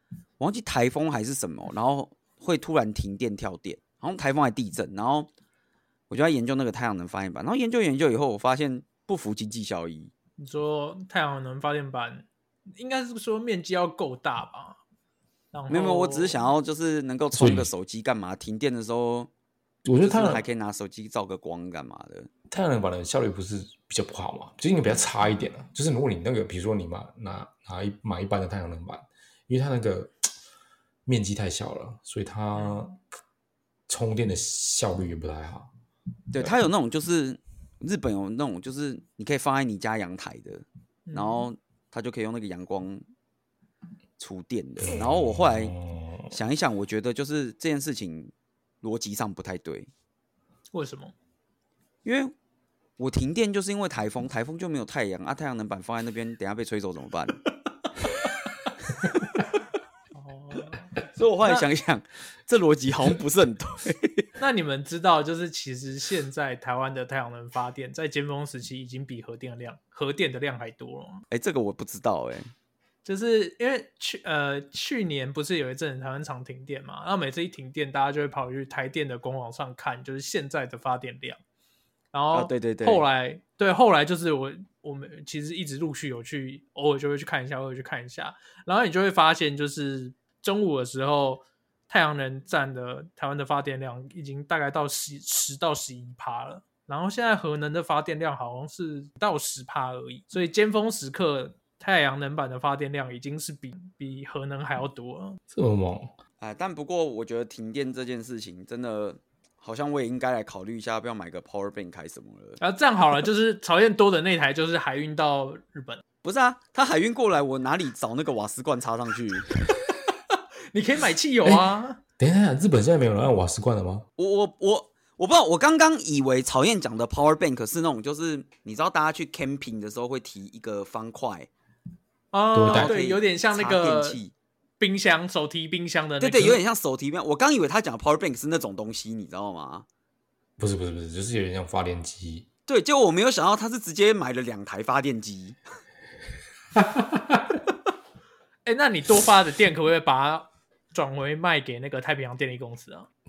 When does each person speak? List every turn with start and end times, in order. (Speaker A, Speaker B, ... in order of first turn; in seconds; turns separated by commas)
Speaker A: 0.4-5.3, Speaker A: 6.1-10.1, Speaker B: 10.4-14.8, Speaker B: 15.5-16.4, Speaker A: 15.7-19.3, Speaker C: 17.3-17.7, Speaker C: 19.8-20.4, Speaker A: 20.0-22.3, Speaker C: 22.5-30.3, Speaker C: 31.1-32.9, Speaker B: 32.5-32.9, Speaker C: 33.9-35.7, Speaker A: 36.3-43.0, Speaker B: 41.1-41.5, Speaker A: 44.2-45.7, Speaker C: 44.8-46.3, Speaker A: 46.3-49.9, Speaker B: 50.7-51.1, Speaker A: 52.0-52.3, Speaker A: 53.0-57.4, Speaker B: 60.1-61.6, Speaker A: 61.1-64.3, Speaker B: 64.4-71.2, Speaker A: 71.3-72.5, Speaker B: 73.0-81.4, Speaker B: 82.1-105.4, Speaker A: 82.3-83.0, Speaker C: 105.5-106.2, Speaker A: 106.4-112.6, Speaker B: 112.6-116.0, Speaker A: 116.2-119.5, Speaker B: 120.7-122.0, Speaker C: 122.2-124.0, Speaker A: 124.2-131.5, Speaker B: 132.3-134.2, Speaker C: 132.5-132.9, Speaker A: 132.7-134.3, Speaker B: 134.8-136.6, Speaker A: 136.2-139.8, Speaker C: 140.6-142.4, Speaker A: 142.7-145.6, Speaker C: 146.8-147.6, Speaker B: 148.6-153.1